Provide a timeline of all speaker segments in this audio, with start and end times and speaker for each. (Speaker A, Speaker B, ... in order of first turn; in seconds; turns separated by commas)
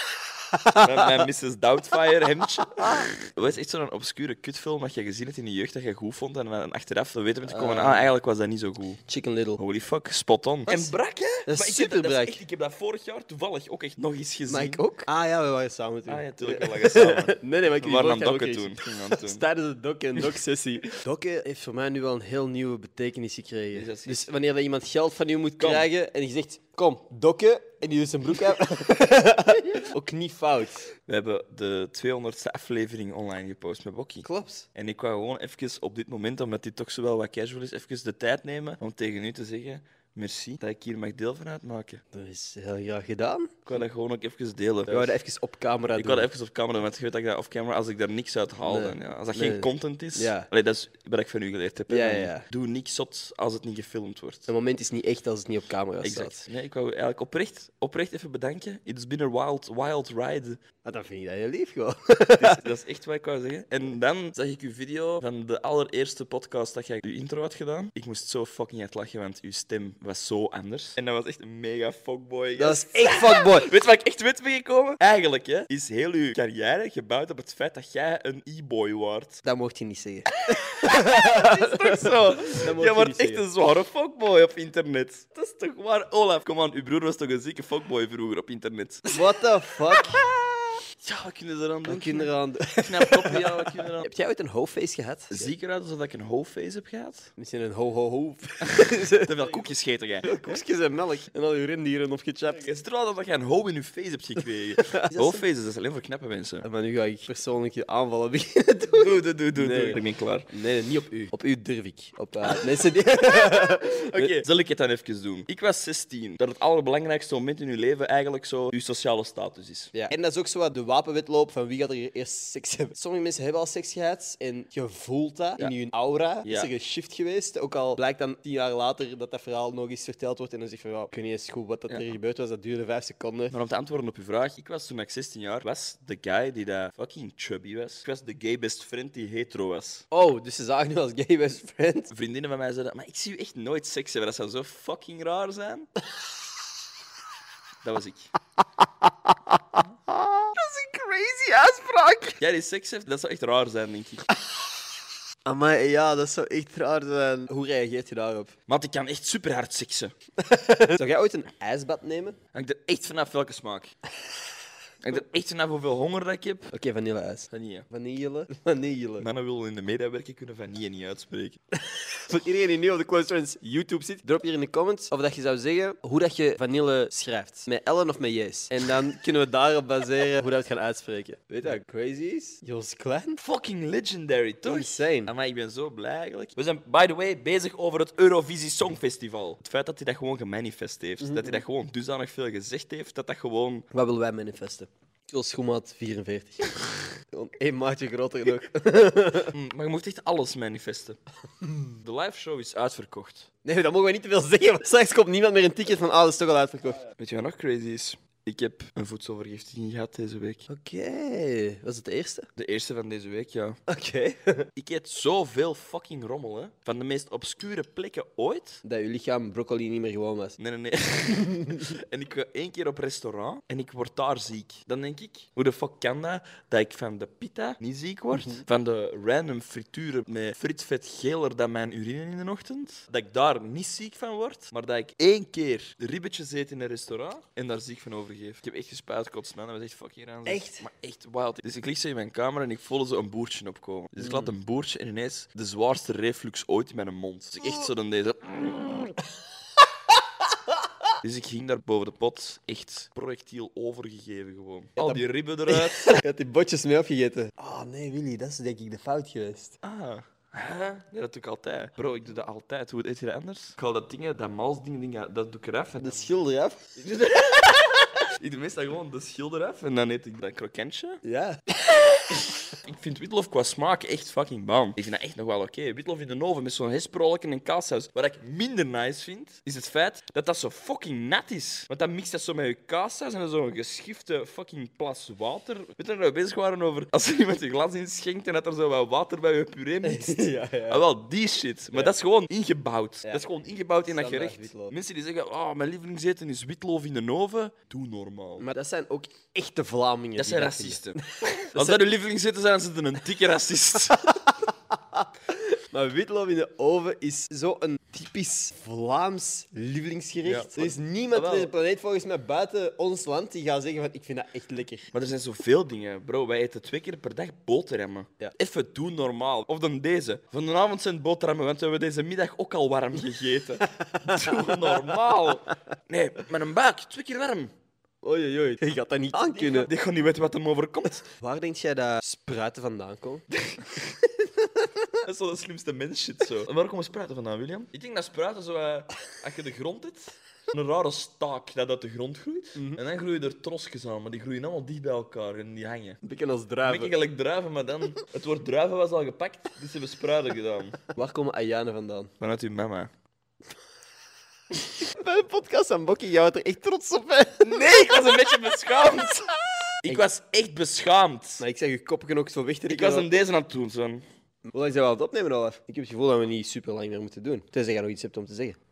Speaker A: 0.4-1.2, Speaker B: 0.8-9.0, Speaker A: 7.4-8.1, Speaker A: 9.1-9.6, Speaker B: 9.6-14.8, Speaker A: 10.7-10.9, Speaker A: 11.4-12.4, Speaker A: 14.5-30.9, Speaker B: 16.1-19.4, Speaker B: 23.7-24.3, Speaker B: 25.6-25.9, Speaker B: 31.1-42.0, Speaker A: 34.2-34.6, Speaker A: 42.1-43.5, Speaker B: 43.6-45.1, Speaker A: 44.9-46.3, Speaker B: 46.0-54.5, Speaker A: 48.6-50.5, Speaker A: 51.9-52.5, Speaker A: 54.5-56.5, Speaker B: 56.0-60.6, Speaker A: 60.8-62.6, Speaker B: 62.4-79.4, Speaker A: 72.6-73.7, Speaker A: 79.4-83.5, Speaker B: 80.3-89.2, Speaker A: 89.1-90.2, Speaker B: 89.9-94.1, Speaker A: 91.9-95.5, Speaker B: 95.3-97.3, Speaker A: 97.4-99.3, Speaker B: 98.6-100.6, Speaker A: 100.2-102.6, Speaker B: 102.6-106.7, Speaker A: 104.9-105.4, Speaker A: 106.6-114.3, Speaker B: 108.9-110.5, Speaker B: 113.3-119.9, Speaker A: 119.9-133.5, Speaker B: 126.4-126.7, Speaker B: 133.5-140.0, Speaker A: 140.1-142.1, Speaker B: 142.1-145.9, Speaker B: 147.8-148.3, Speaker A: 149.3-152.4, Speaker B: 152.4-154.3, Speaker A: 155.4-158.5, Speaker B: 158.7-160.1, Speaker A: 160.4-162.4, Speaker B: 162.5-163.9, Speaker B: 165.0-166.7, Speaker A: 166.7-169.2, Speaker B: 167.5-167.9, Speaker B: 169.2-171.6, Speaker A: 171.8-183.4, Speaker B: 183.4-193.9, Speaker A: 184.6-185.3, Speaker A: 191.2-191.6, Speaker A: 193.9-199.5, Speaker B: 199.5-201.2, Speaker B: 202.0-203.5, Speaker A: 203.6-207.0, Speaker B: 207.2-210.7, Speaker A: 210.7-212.5, Speaker B: 212.6-213.8, Speaker A: 213.9-214.7, Speaker B: 214.8-218.8, Speaker A: 218.8-220.6, Speaker B: 220.6-249.2, Speaker A: 240.4-240.8, Speaker A: 244.2-244.5, Speaker B: 251.2-256.2, Speaker A: 255.0-259.8, Speaker B: 259.8-266.3, Speaker A: 266.0-266.9, Speaker B: 267.0-271.2, Speaker A: 271.2-272.5, Speaker B: 272.3-298.6, Speaker A: 290.0-291.0, Speaker A: 294.0-294.9, Speaker A: 298.6-302.0, Speaker B: 300.4-304.3, Speaker A: 304.3-315.1, Speaker B: 310.4-311.7, Speaker B: 315.1-327.7, Speaker A: 324.3-324.9, Speaker A: 328.2-329.9, Speaker B: 329.4-331.3, Speaker A: 331.4-333.5, Speaker B: 333.7-334.0, Speaker B: 335.2-346.2, Speaker A: 346.2-347.1, Speaker B: 346.8-351.0, Speaker A: 351.1-352.3, Speaker B: 352.4-353.1, Speaker A: 354.9-357.7, Speaker B: 357.6-359.5, Speaker B: 360.0-361.6, Speaker A: 361.6-363.3, Speaker B: 362.9-364.2, Speaker A: 364.6-368.8